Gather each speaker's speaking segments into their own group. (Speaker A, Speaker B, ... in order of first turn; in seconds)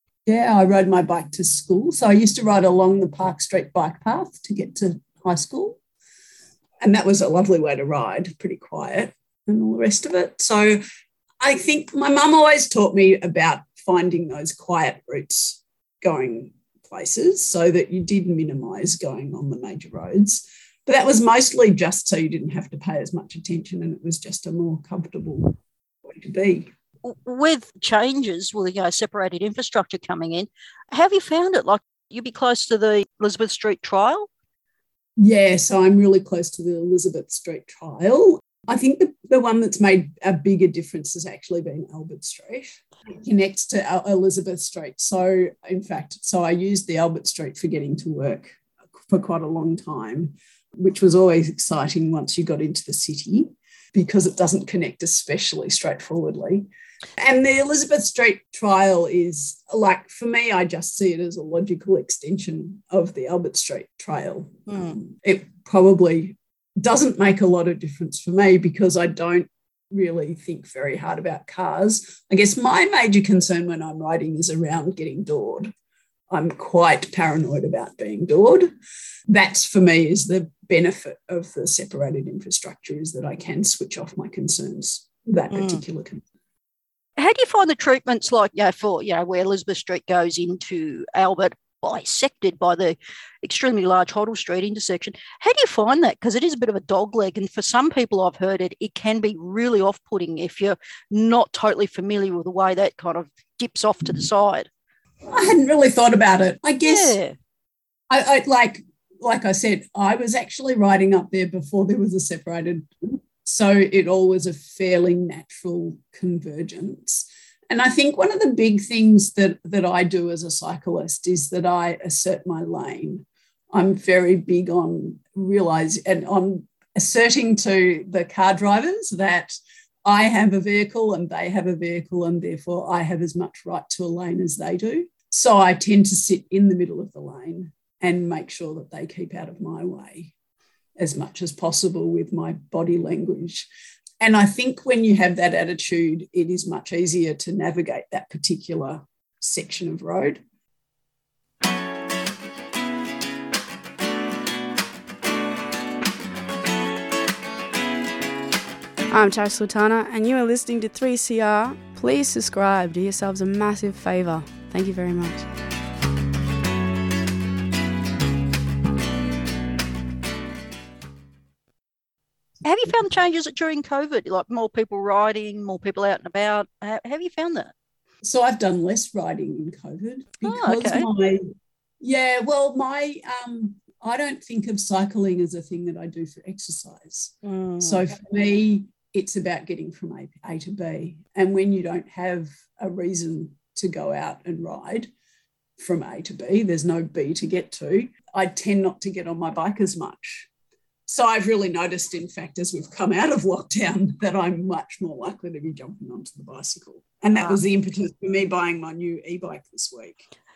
Speaker A: 0.3-5.8, 6.8-10.8, 11.4-26.7, 35.2-75.7, 76.3-78.8, 79.3-86.2, 105.3-107.2, 108.1-140.3, 141.0-143.7, 144.2-150.4, 178.2-181.4, 182.0-195.1, 195.8-200.5, 201.1-210.2
Speaker B: 27.0-34.3, 64.7-65.0, 85.5-85.8, 87.2-104.7, 106.8-107.4, 172.6-177.7, 180.4-181.1, 187.4-188.1, 207.3-207.6
Speaker C: 159.1-165.5